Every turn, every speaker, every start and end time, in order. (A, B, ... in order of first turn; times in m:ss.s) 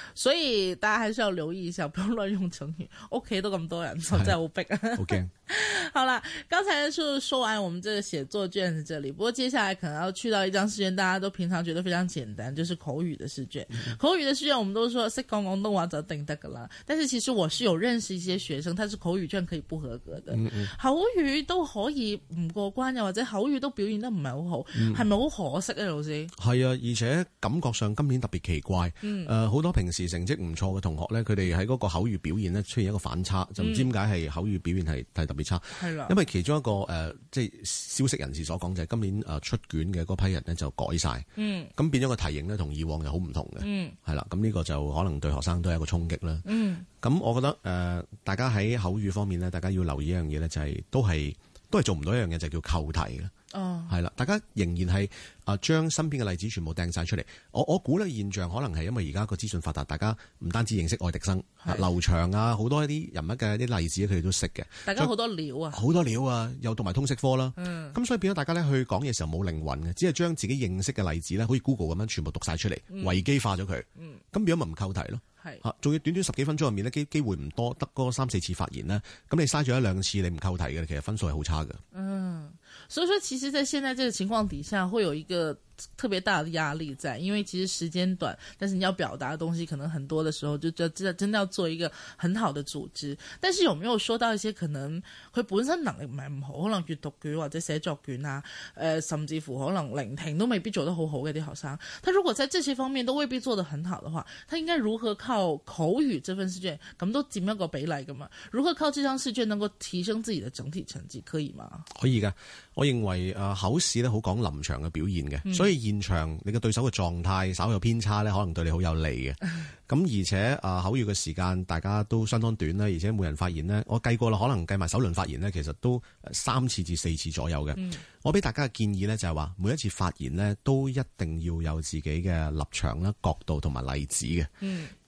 0:00.2-0:26.3 A
0:05.0-0:05.3 B
0:20.3-0:20.7 B
0:24.7-0:25.0 B
0:26.4-0:46.4 B
0:29.0-0:29.3 A
0:33.6-0:33.9 A
0:35.7-0:36.2 A
0:41.4-0:41.7 A
0:43.6-0:44.0 A
0:46.4-0:46.8 A
0:47.0-0:53.3 B
0:53.5-0:53.9 A
0:53.9-1:05.1 B
1:04.8-1:05.8 A
1:05.7-1:21.8 B
1:07.6-1:08.0 A
1:12.9-1:13.2 A
1:21.9-1:51.9 A
1:51.9-2:14.5 B
1:55.4-1:55.7 A
2:07.8-2:08.0 A
2:14.6-2:14.9 A